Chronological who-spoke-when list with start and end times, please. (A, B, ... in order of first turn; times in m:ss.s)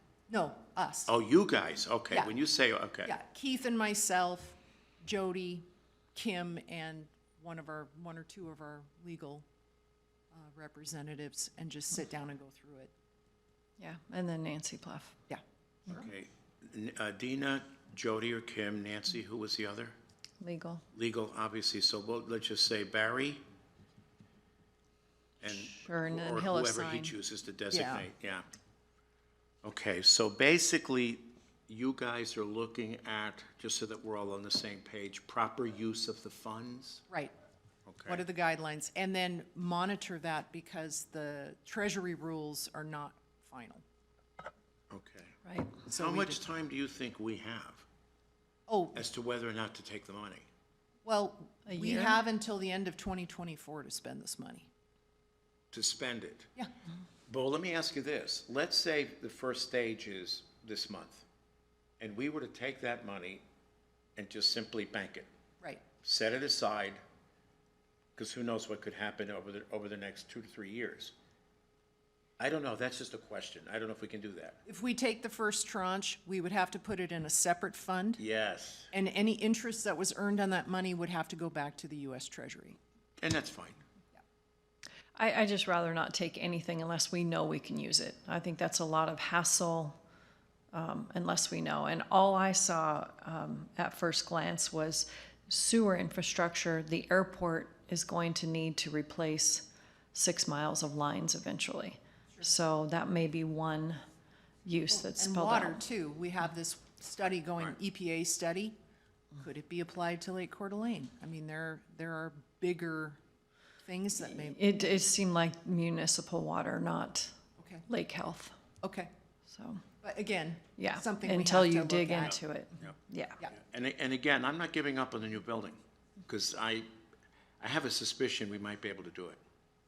0:00.3-0:01.1 A
0:01.1-0:03.1 B
0:03.0-0:09.4 A
0:10.3-0:12.9 A
0:13.8-0:15.2 C
0:15.3-0:16.1 A
0:15.9-0:20.0 B
0:20.4-0:20.8 C
0:20.9-0:23.4 B
0:25.4-0:28.4 B
0:25.4-0:27.2 C
0:27.7-0:28.0 A
0:29.6-0:37.1 B
0:37.8-0:38.2 B
0:38.0-0:43.8 A
0:44.9-0:47.8 B
0:45.4-0:45.7 C
0:45.8-0:46.4 A
0:48.7-0:49.0 A
0:48.9-0:50.5 B
0:51.0-0:54.7 A
0:51.6-0:52.2 C
0:55.7-0:56.5 B
0:57.3-1:01.2 B
1:02.0-1:03.4 B
1:04.2-1:05.3 B
1:06.0-1:07.0 B
1:08.2-1:11.1 B
1:12.4-1:14.6 B
1:14.6-1:18.2 A
1:18.2-1:18.9 B
1:18.9-1:22.8 A
1:23.2-1:23.8 B
1:25.2-1:30.0 C
1:30.7-1:44.0 C
1:44.6-1:45.8 C
1:44.9-1:48.8 A
1:49.4-1:53.2 A
1:53.8-1:55.0 A
1:54.3-1:58.6 C
1:57.6-1:57.9 A
1:58.8-1:59.1 A
1:59.5-1:59.8 C
2:00.0-2:02.4 A
2:00.8-2:03.4 C
2:03.5-2:06.9 B
2:07.6-2:09.4 B